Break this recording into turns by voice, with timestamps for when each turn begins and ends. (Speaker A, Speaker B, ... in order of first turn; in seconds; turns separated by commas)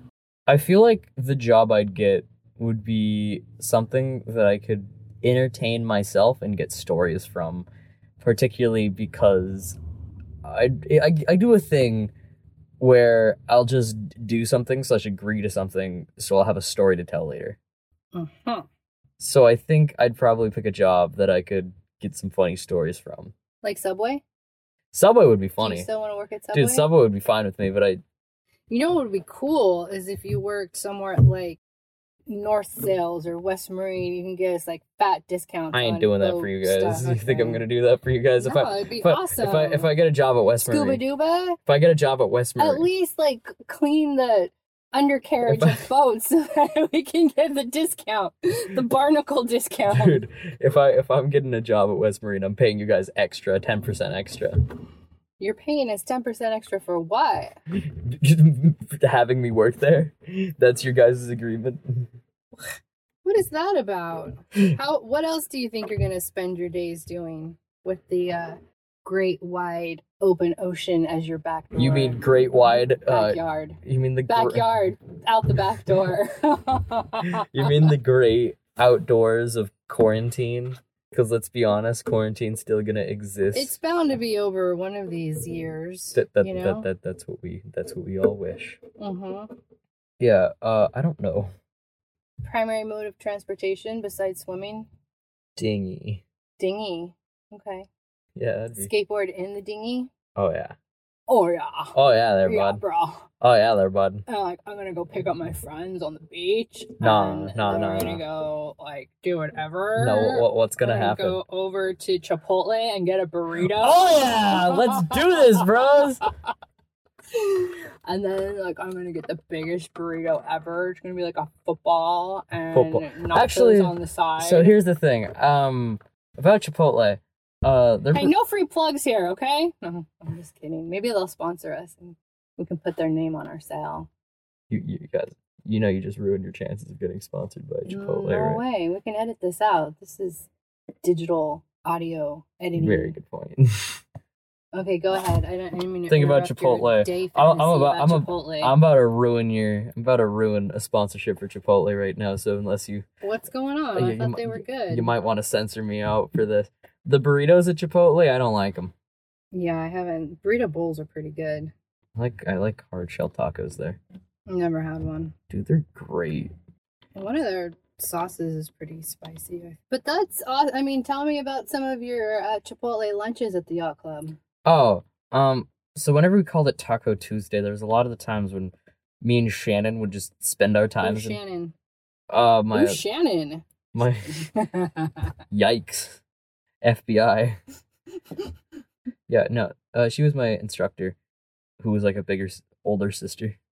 Speaker A: 0.5-7.7, Speaker A: 8.2-9.8, Speaker A: 10.4-12.1, Speaker A: 12.8-17.6, Speaker B: 18.1-18.7, Speaker A: 19.2-23.3, Speaker B: 23.6-24.2, Speaker A: 24.9-25.9, Speaker B: 25.6-26.9, Speaker A: 26.5-28.0, Speaker B: 28.7-31.6, Speaker B: 32.3-37.6, Speaker A: 35.7-41.0, Speaker B: 38.4-39.9, Speaker B: 40.7-41.6, Speaker A: 41.7-42.9, Speaker B: 42.6-50.2, Speaker A: 45.5-45.8, Speaker A: 49.9-54.6, Speaker B: 55.4-57.6, Speaker A: 58.0-62.1, Speaker B: 63.2-72.2, Speaker A: 71.8-74.7, Speaker B: 73.1-77.7, Speaker A: 77.4-83.8, Speaker B: 83.5-86.9, Speaker A: 86.1-88.8, Speaker B: 89.0-89.5, Speaker A: 90.2-91.5, Speaker B: 92.4-94.9, Speaker A: 95.6-96.2, Speaker B: 96.6-97.9, Speaker A: 98.4-98.9, Speaker B: 98.7-100.1, Speaker A: 100.4-100.8, Speaker B: 101.3-103.3, Speaker A: 101.9-102.8, Speaker A: 103.4-104.2, Speaker B: 104.3-115.8, Speaker A: 107.0-108.2, Speaker A: 110.0-111.4, Speaker A: 113.7-116.2, Speaker B: 117.3-124.8, Speaker A: 122.7-128.3, Speaker B: 128.1-134.1, Speaker A: 134.7-138.6, Speaker B: 137.9-140.5, Speaker B: 141.0-143.2, Speaker A: 142.8-144.0, Speaker B: 144.7-148.8, Speaker A: 146.1-153.1, Speaker B: 153.2-155.1, Speaker A: 153.9-158.9, Speaker B: 159.5-161.7, Speaker A: 162.2-164.0, Speaker B: 164.5-165.3, Speaker A: 165.5-166.5, Speaker B: 167.2-174.4, Speaker A: 174.7-181.4, Speaker B: 181.0-181.7, Speaker A: 182.3-183.0, Speaker B: 182.7-183.7, Speaker A: 183.9-184.5, Speaker B: 184.4-185.3, Speaker A: 185.5-186.2, Speaker A: 186.8-187.6, Speaker A: 189.3-191.2, Speaker A: 191.8-193.6